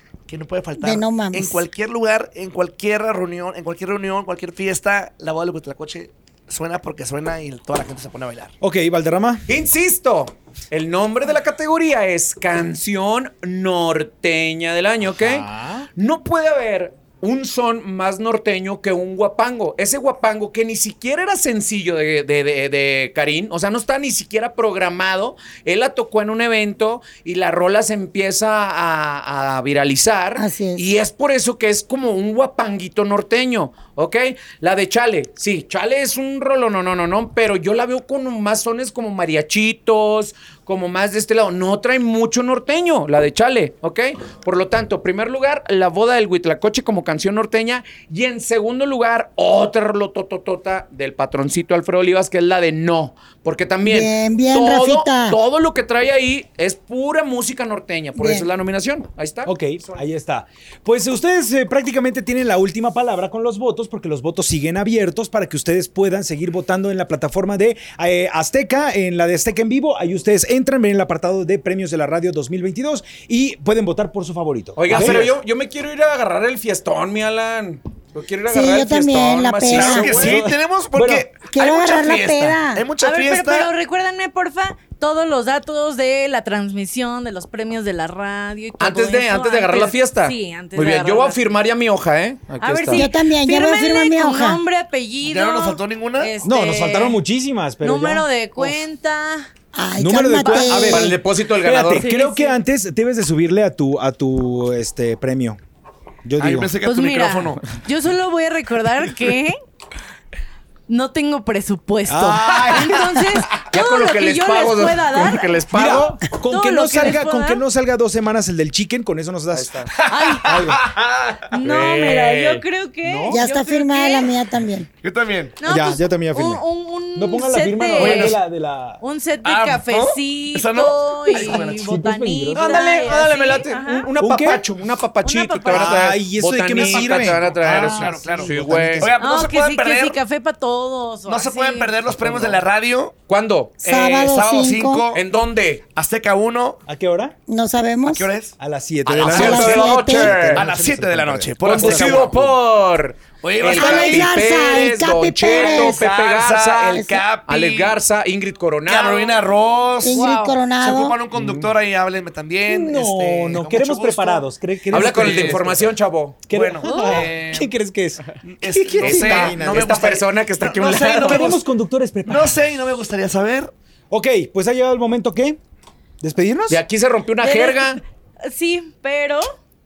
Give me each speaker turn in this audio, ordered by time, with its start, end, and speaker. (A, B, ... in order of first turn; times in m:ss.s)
0:00.3-0:08.6 A
0:00.8-0:01.6 B
0:08.6-0:09.4 C
0:09.5-1:00.0 D
0:15.1-0:15.9 C
0:30.4-0:30.9 B
0:53.8-0:55.4 B
0:58.2-0:58.5 B
0:59.4-1:15.3 C
1:14.8-1:20.4 D
1:18.5-1:20.3 B
1:19.7-1:23.7 A
1:20.0-1:21.3 C
1:21.5-1:22.9 B
1:23.0-1:31.4 E
1:28.8-1:33.1 D
1:32.6-1:37.2 E
1:32.9-1:34.6 B
1:35.2-1:36.4 A
1:36.4-1:38.7 C
1:37.8-1:39.5 E
1:39.7-1:41.2 B
1:40.0-1:45.6 C
1:40.5-1:42.1 D
1:42.0-1:42.6 E
1:46.2-1:46.7 C
1:46.4-1:47.6 A
1:46.8-1:49.6 E
1:50.9-1:55.6 E
1:52.1-1:53.4 C
1:53.6-1:56.2 D
1:55.7-1:59.9 C
1:56.5-1:57.6 E
1:59.5-1:59.9 D
2:00.0-2:00.6 E
2:00.4-2:00.9 C
2:01.0-2:01.4 A
2:01.5-2:02.6 D
2:01.5-2:04.3 E
2:03.0-2:03.4 C
2:03.3-2:04.9 B
2:05.0-2:05.6 A
2:05.6-2:08.4 E
2:05.6-2:06.6 C
2:07.2-2:09.0 C
2:08.0-2:08.4 A
2:09.0-2:14.1 E
2:09.4-2:11.9 A
2:11.3-2:12.8 C
2:12.6-2:19.1 D
2:14.2-2:14.6 C
2:15.2-2:16.1 E
2:15.7-2:19.1 C
2:16.8-2:20.2 A
2:19.2-2:21.9 E
2:21.3-2:23.2 A
2:23.3-2:23.8 D
2:23.8-2:25.0 B
2:23.8-2:25.2 A
2:25.1-2:25.8 D
2:25.9-2:26.8 A
2:26.9-2:27.4 C
2:27.5-2:28.3 B
2:28.1-2:28.6 A
2:28.6-2:32.3 C
2:29.1-2:29.9 A
2:29.2-2:30.6 D
2:29.3-2:30.4 B
2:30.4-2:32.5 A
2:31.6-2:39.4 D
2:33.4-2:34.4 A
2:33.8-2:36.1 B
2:35.4-2:38.0 A
2:37.0-2:37.2 B
2:38.9-2:45.6 A
2:40.0-2:41.2 B
2:40.1-2:40.6 E
2:41.4-2:41.6 D
2:42.7-2:45.9 C
2:44.9-2:46.4 D
2:46.5-2:50.0 C
2:46.5-2:47.7 A
2:46.8-2:47.3 E
2:48.4-2:51.6 A
2:49.0-2:51.6 D
2:51.0-2:52.6 C
2:52.3-2:53.7 A
2:54.1-2:55.6 C
2:56.2-2:56.8 C
2:56.7-2:58.0 D
2:57.4-2:59.5 E